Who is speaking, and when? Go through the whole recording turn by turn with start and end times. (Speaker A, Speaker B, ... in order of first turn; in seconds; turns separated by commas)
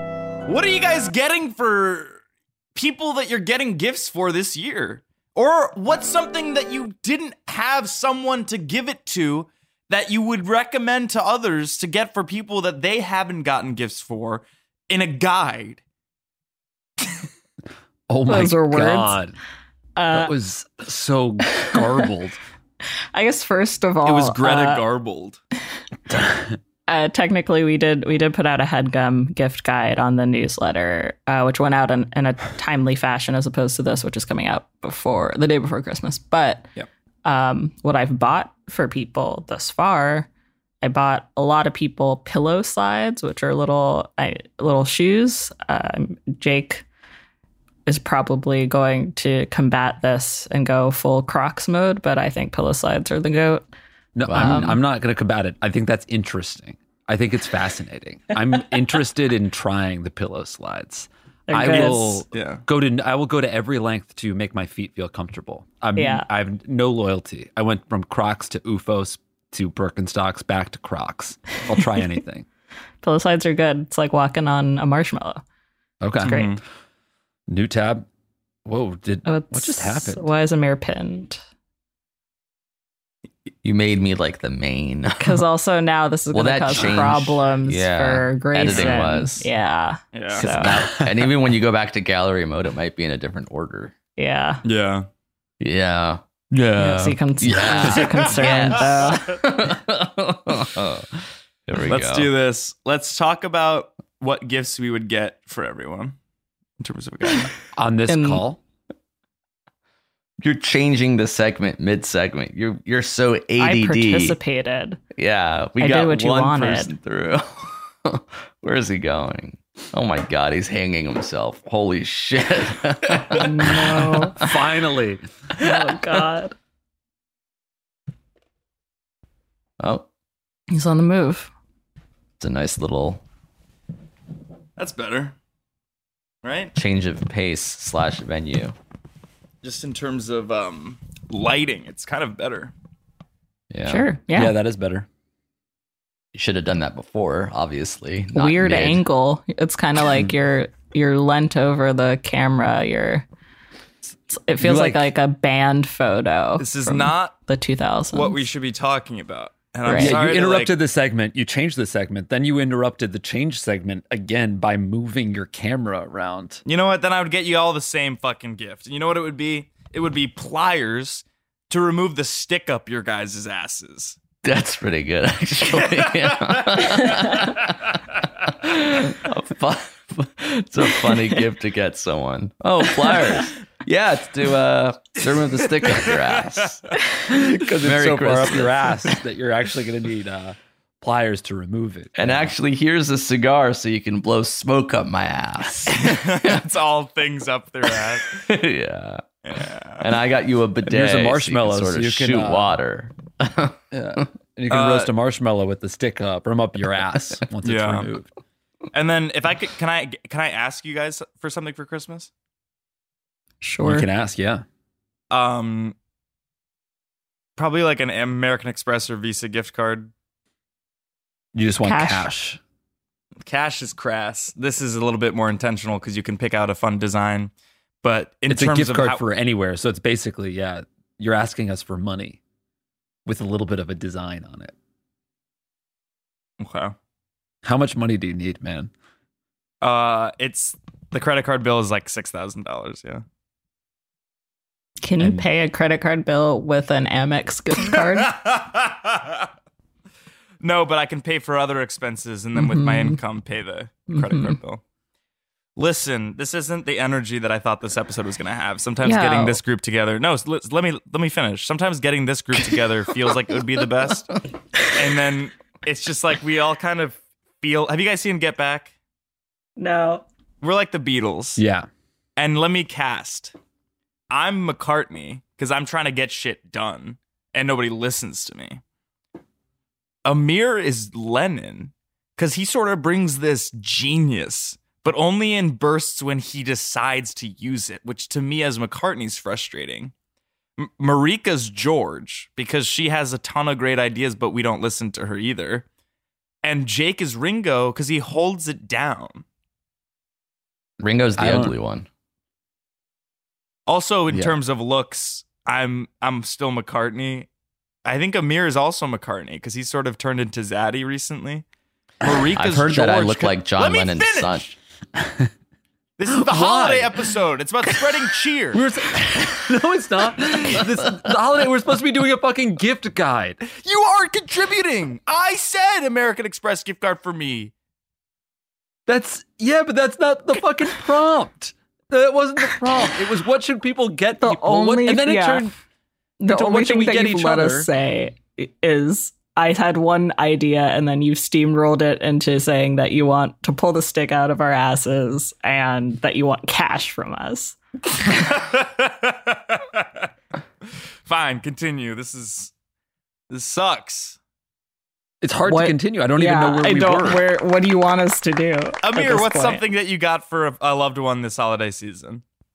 Speaker A: 0.5-2.2, Speaker A: 2.7-15.8, Speaker B: 18.1-19.4, Speaker C: 18.3-19.2, Speaker C: 19.9-20.3, Speaker B: 20.1-22.4, Speaker C: 23.1-24.8, Speaker A: 24.0-25.4, Speaker C: 26.9-36.7, Speaker C: 37.2-40.3, Speaker C: 40.8-46.8, Speaker C: 47.9-53.6, Speaker B: 54.1-72.5, Speaker C: 54.3-54.8, Speaker D: 54.3-54.6, Speaker C: 61.5-62.2, Speaker A: 62.3-62.6, Speaker C: 66.0-66.2, Speaker C: 73.0-75.4, Speaker B: 76.0-76.5, Speaker A: 76.2-76.6, Speaker C: 76.2-76.6, Speaker B: 77.5-78.1, Speaker B: 78.6-80.3, Speaker C: 79.2-81.4, Speaker D: 83.6-85.4, Speaker C: 85.2-90.7, Speaker D: 86.3-89.5, Speaker A: 88.7-89.0, Speaker A: 90.1-90.5, Speaker D: 90.3-93.9, Speaker C: 94.2-94.6, Speaker A: 94.6-95.1, Speaker D: 95.6-101.1, Speaker C: 96.8-99.2, Speaker A: 98.4-99.1, Speaker D: 101.7-102.3, Speaker A: 101.8-106.2, Speaker A: 106.8-107.5, Speaker B: 107.8-108.6, Speaker C: 108.1-108.4, Speaker D: 110.4-114.4, Speaker C: 113.6-115.0, Speaker D: 115.1-124.3, Speaker C: 115.8-116.9, Speaker C: 123.3-124.4, Speaker B: 124.4-125.2, Speaker C: 125.6-126.5, Speaker D: 129.8-130.1, Speaker C: 130.7-131.5, Speaker D: 132.4-133.2, Speaker A: 134.8-135.3, Speaker A: 136.4-136.7, Speaker D: 136.8-138.7, Speaker A: 139.6-142.7, Speaker D: 143.7-144.1, Speaker C: 143.8-144.5, Speaker B: 144.3-145.1, Speaker D: 146.3-149.0, Speaker C: 148.3-153.2, Speaker C: 154.3-158.4, Speaker B: 154.6-155.1, Speaker A: 156.6-157.4, Speaker A: 158.1-160.8, Speaker C: 159.8-160.2, Speaker B: 159.9-166.6, Speaker A: 166.7-174.2, Speaker D: 174.4-178.0, Speaker A: 175.7-177.0, Speaker D: 178.5-187.0, Speaker B: 187.3-192.5, Speaker D: 187.8-188.9, Speaker D: 192.2-196.6, Speaker A: 195.8-198.4, Speaker D: 198.4-199.2, Speaker A: 199.4-200.1, Speaker D: 200.0-203.8, Speaker B: 200.8-202.8, Speaker B: 203.9-208.3, Speaker A: 204.7-205.1, Speaker A: 207.6-208.1, Speaker A: 208.9-212.3, Speaker C: 213.6-214.1, Speaker B: 213.8-214.6, Speaker A: 215.3-215.9, Speaker A: 217.6-220.1, Speaker B: 221.5-222.6, Speaker C: 221.8-222.3, Speaker A: 223.4-227.5, Speaker A: 228.0-229.2, Speaker B: 228.5-232.4, Speaker B: 233.2-234.7, Speaker A: 236.6-236.9, Speaker B: 237.6-238.9, Speaker A: 239.8-243.2, Speaker C: 245.0-248.3, Speaker B: 245.2-245.4, Speaker A: 247.9-249.5, Speaker A: 250.6-254.8, Speaker C: 252.5-253.2, Speaker C: 254.1-254.6, Speaker A: 255.8-264.3, Speaker C: 259.0-259.6, Speaker A: 264.9-268.9, Speaker C: 269.8-270.2, Speaker A: 270.6-271.6, Speaker B: 271.6-271.9, Speaker A: 272.4-273.5, Speaker A: 274.3-278.8, Speaker A: 280.2-290.1, Speaker A: 290.8-295.8, Speaker A: 296.6-299.4, Speaker D: 301.0-302.1, Speaker B: 301.4-301.7, Speaker A: 303.9-307.5, Speaker A: 308.0-311.6, Speaker A: 312.2-314.7, Speaker D: 312.6-314.8, Speaker B: 312.7-313.1, Speaker B: 315.2-315.5, Speaker A: 316.2-318.8, Speaker B: 316.3-317.2, Speaker B: 318.7-323.6, Speaker A: 323.6-327.7, Speaker B: 329.1-335.7, Speaker C: 334.4-335.7, Speaker C: 336.4-347.8, Speaker B: 336.4-337.9, Speaker A: 348.3-350.3, Speaker A: 351.2-352.7, Speaker A: 353.5-354.4, Speaker B: 355.4-357.4, Speaker C: 355.6-359.8, Speaker A: 359.0-362.4